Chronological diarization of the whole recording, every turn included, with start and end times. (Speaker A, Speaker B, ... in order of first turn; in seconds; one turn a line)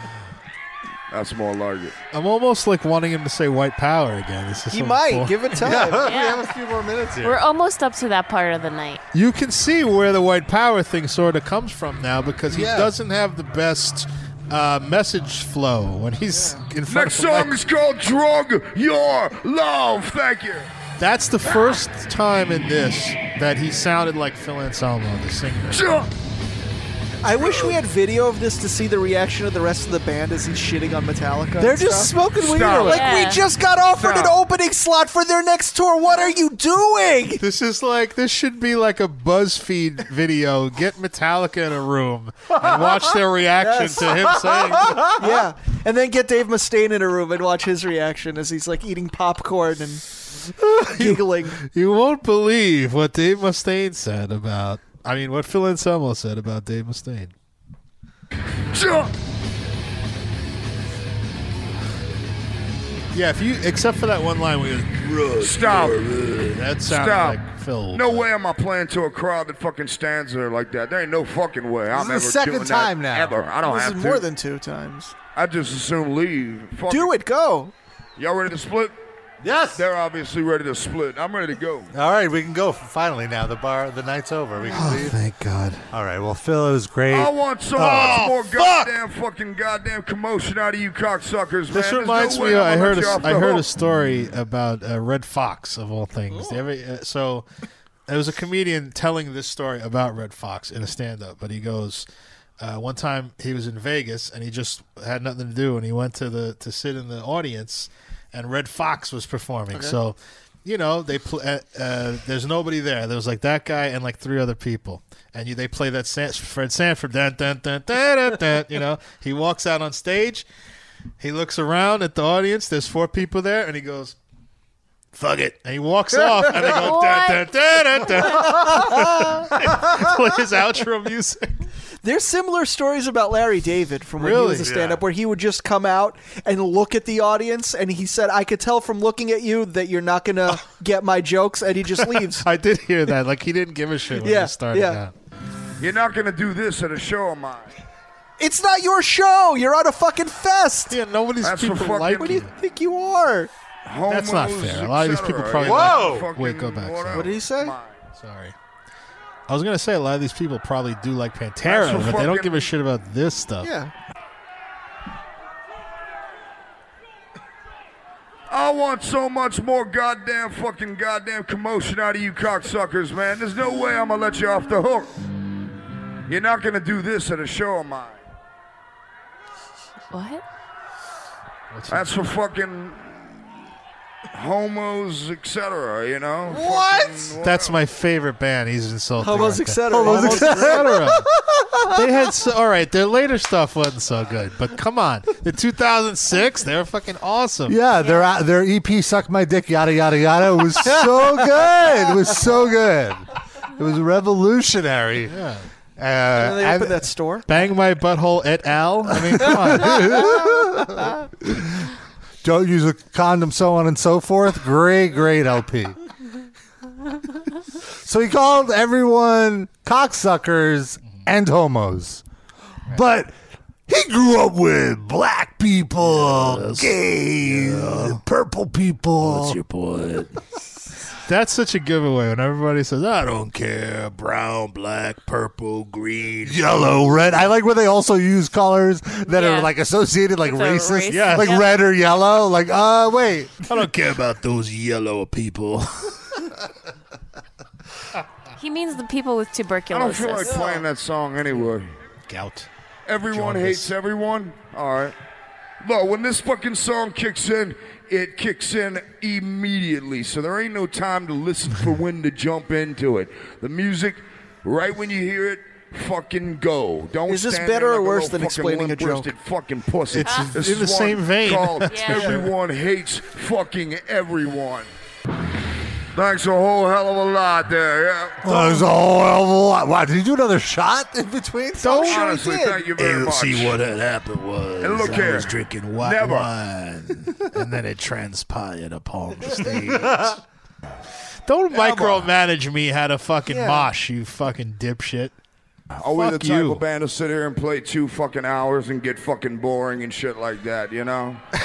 Speaker A: 1.1-2.0
Speaker B: 2.1-5.9
Speaker C: 4.7-6.2
Speaker D: 5.6-7.4
Speaker E: 6.0-6.5
Speaker E: 7.2-9.0
Speaker B: 9.1-17.6
Speaker D: 12.5-12.9
Speaker C: 16.3-16.6
Speaker A: 16.9-20.7
Speaker B: 21.0-25.8
Speaker A: 25.7-26.1
Speaker C: 27.2-37.4
Speaker A: 27.4-27.7
Speaker D: 31.6-32.0
Speaker A: 32.4-33.3
Speaker E: 32.8-33.4
Speaker A: 34.0-34.4
Speaker B: 37.4-45.1
Speaker C: 43.6-44.4
Speaker C: 45.1-50.0
Speaker B: 50.6-57.3
Speaker C: 51.0-51.6
Speaker A: 58.7-59.1
Speaker B: 63.1-64.9
Speaker F: 64.9-66.6
Speaker A: 65.4-66.1
Speaker B: 66.5-68.3
Speaker A: 66.9-67.4
Speaker A: 67.9-74.2
Speaker D: 71.9-73.4
Speaker C: 73.6-75.1
Speaker A: 75.3-77.1
Speaker C: 76.9-77.7
Speaker A: 78.2-79.0
Speaker D: 79.4-79.8
Speaker A: 79.8-81.9
Speaker D: 81.9-85.2
Speaker B: 84.7-85.8
Speaker D: 85.9-88.3
Speaker A: 87.1-93.7
Speaker F: 87.8-88.9
Speaker B: 91.7-97.5
Speaker B: 98.1-102.1
Speaker B: 102.6-120.5
Speaker B: 121.2-124.2
Speaker F: 125.1-125.6
Speaker B: 125.6-131.5
Speaker E: 126.7-127.5
Speaker C: 132.0-142.4
Speaker B: 134.2-134.8
Speaker D: 134.6-135.0
Speaker B: 142.4-145.1
Speaker C: 144.2-145.0
Speaker A: 145.8-147.8
Speaker C: 148.4-151.0
Speaker B: 150.9-152.5
Speaker A: 151.4-152.4
Speaker C: 152.5-153.5
Speaker A: 153.9-158.0
Speaker B: 154.1-157.3
Speaker D: 155.6-156.3
Speaker C: 157.1-157.7
Speaker B: 158.2-158.6
Speaker B: 159.5-163.7
Speaker A: 161.7-162.7
Speaker C: 163.6-163.9
Speaker A: 168.5-175.1
Speaker A: 176.3-178.2
Speaker E: 180.1-180.4
Speaker B: 181.7-182.1
Speaker A: 181.9-183.4
Speaker A: 184.3-187.8
Speaker C: 186.6-187.0
Speaker B: 187.4-191.2
Speaker C: 189.2-191.9
Speaker D: 189.9-191.1
Speaker B: 191.9-197.8
Speaker D: 197.7-205.4
Speaker C: 200.8-201.6
Speaker B: 205.3-205.7
Speaker D: 206.0-207.0
Speaker C: 206.4-207.5
Speaker B: 207.5-210.2
Speaker D: 209.1-211.8
Speaker C: 210.0-211.1
Speaker D: 212.4-216.0
Speaker D: 218.0-222.2
Speaker D: 222.9-223.3
Speaker D: 223.9-229.6
Speaker F: 226.0-228.2
Speaker F: 229.2-230.3
Speaker B: 231.3-233.2
Speaker F: 233.1-237.3
Speaker D: 236.4-243.7
Speaker E: 239.3-239.7
Speaker E: 240.4-241.7
Speaker B: 241.1-241.6
Speaker F: 243.7-246.1
Speaker E: 248.6-250.7
Speaker A: 249.9-251.9
Speaker B: 252.3-252.7
Speaker A: 253.1-255.1
Speaker B: 253.3-253.9
Speaker A: 255.8-274.9
Speaker C: 267.3-269.3
Speaker B: 270.1-272.4
Speaker E: 270.2-270.6
Speaker E: 271.9-272.3
Speaker A: 276.1-278.8
Speaker D: 278.4-282.3
Speaker C: 281.8-282.9
Speaker A: 282.0-283.8
Speaker F: 283.0-290.3
Speaker A: 284.8-286.5
Speaker D: 289.7-290.3
Speaker B: 291.5-295.3
Speaker A: 291.8-292.3
Speaker C: 293.5-293.9
Speaker A: 296.0-301.4
Speaker B: 296.2-296.8